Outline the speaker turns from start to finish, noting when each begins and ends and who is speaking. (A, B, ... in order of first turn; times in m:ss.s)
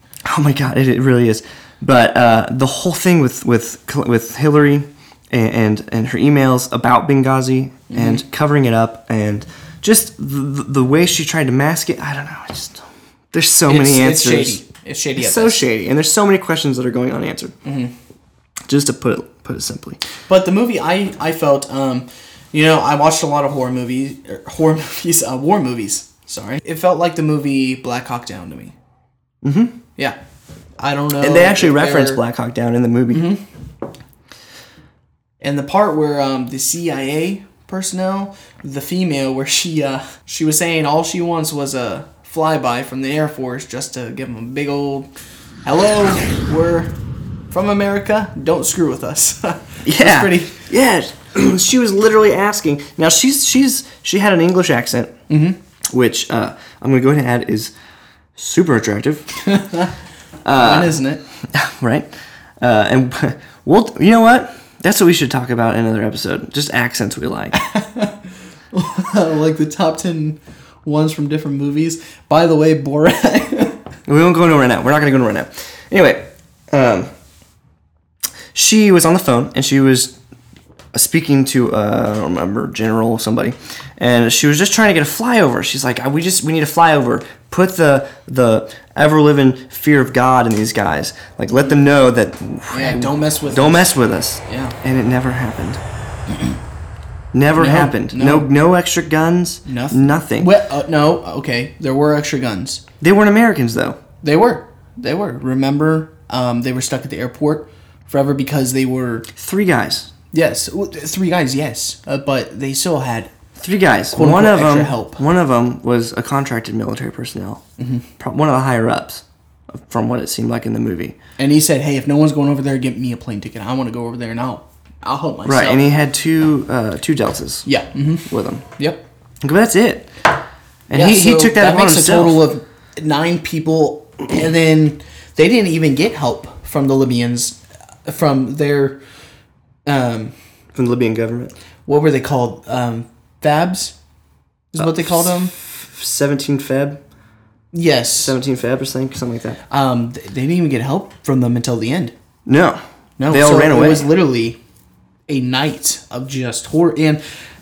0:00.2-0:14.6 A
0:07.9-0:08.2 B
0:13.7-0:15.6 B
0:15.2-0:17.5 A
0:17.6-0:17.9 B
0:18.7-0:20.0 A
0:20.3-0:28.7 B
0:29.4-0:29.8 A
0:30.8-0:32.2 B
0:31.2-0:33.3 A
0:33.1-0:33.4 B
0:35.4-0:45.1 B
0:45.6-0:47.0 B
0:47.5-0:50.6 B
0:49.8-0:55.1 A
0:55.3-0:55.6 B
0:55.9-0:57.7 A
0:58.4-0:59.3 A
0:59.4-0:59.9 B
1:00.4-1:01.0 A
1:00.5-1:01.2 B
1:01.5-1:07.6 A
1:07.5-1:08.2 B
1:08.7-1:13.8 B
1:14.1-1:17.1 A
1:18.5-1:20.2 A
1:20.9-1:35.8 A
1:32.7-1:33.9 B
1:34.4-1:34.8 B
1:37.3-1:40.5 A
1:37.6-1:38.5 B
1:39.6-1:42.8 B
1:43.0-1:44.0 A
1:44.2-1:49.3 B
1:49.3-1:50.1 A
1:50.3-1:53.3 B
1:53.6-1:57.6 A
1:54.1-1:55.2 B
1:57.8-1:58.0 B
1:58.2-2:01.2 A
2:01.4-2:05.8 B
2:05.4-2:07.7 A
2:07.6-2:09.0 B
2:08.3-2:08.6 A
2:09.4-2:10.1 A
2:10.9-2:12.4 A
2:10.9-2:19.0 B
2:19.8-2:20.3 B
2:20.7-2:21.5 A
2:21.8-2:23.9 B
2:24.7-2:25.5 B
2:24.8-2:27.0 A
2:27.7-2:28.4 B
2:28.2-2:29.6 A
2:29.7-2:32.1 B
2:32.4-2:34.1 A
2:33.2-2:34.6 B
2:35.3-2:37.2 B